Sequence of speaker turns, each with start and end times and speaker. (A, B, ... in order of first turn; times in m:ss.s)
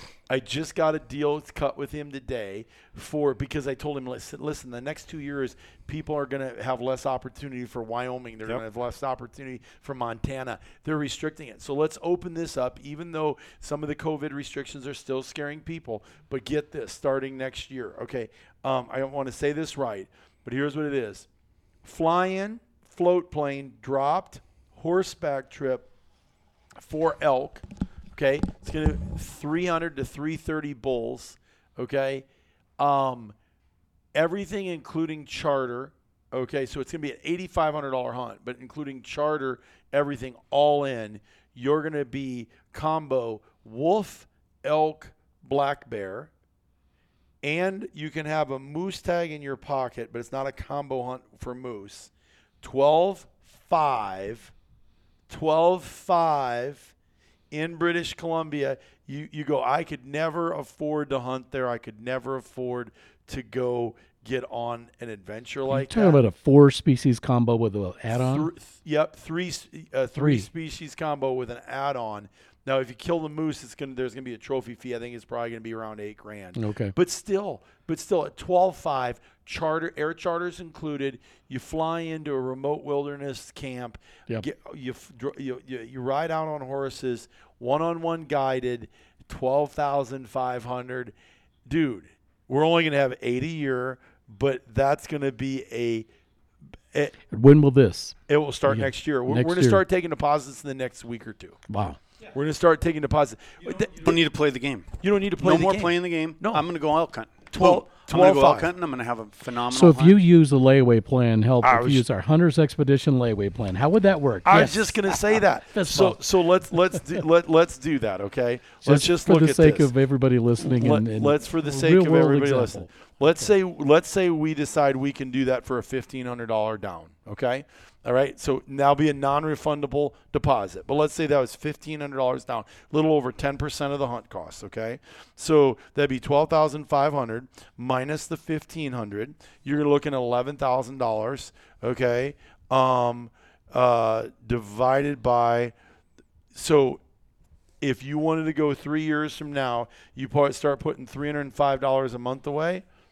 0:00.3-0:21.3 A
0:21.8-0:25.9 A
0:26.8-0:32.3 A
0:32.8-0:33.4 A
0:34.2-0:46.3 A
0:47.4-0:52.1 A
0:52.6-0:54.5 A
0:55.3-0:56.9 A
0:57.5-1:06.2 A
1:05.7-1:08.5 B
1:08.1-1:31.1 A
1:10.2-1:10.5 B
1:16.6-1:17.0 B
1:31.7-1:36.1 A
1:37.3-1:39.8 B
1:38.3-1:41.6 A
1:41.7-1:42.0 B
1:42.3-1:44.1 A
1:43.9-1:50.2 C
1:45.0-1:46.7 A
1:47.5-1:48.7 A
1:49.7-1:56.2 B
1:51.6-1:52.0 A
1:54.4-1:59.9 A
1:56.7-1:57.0 B
1:58.8-2:03.2 B
2:00.6-2:25.7 A
2:26.5-2:27.0 A
2:27.8-2:32.8 A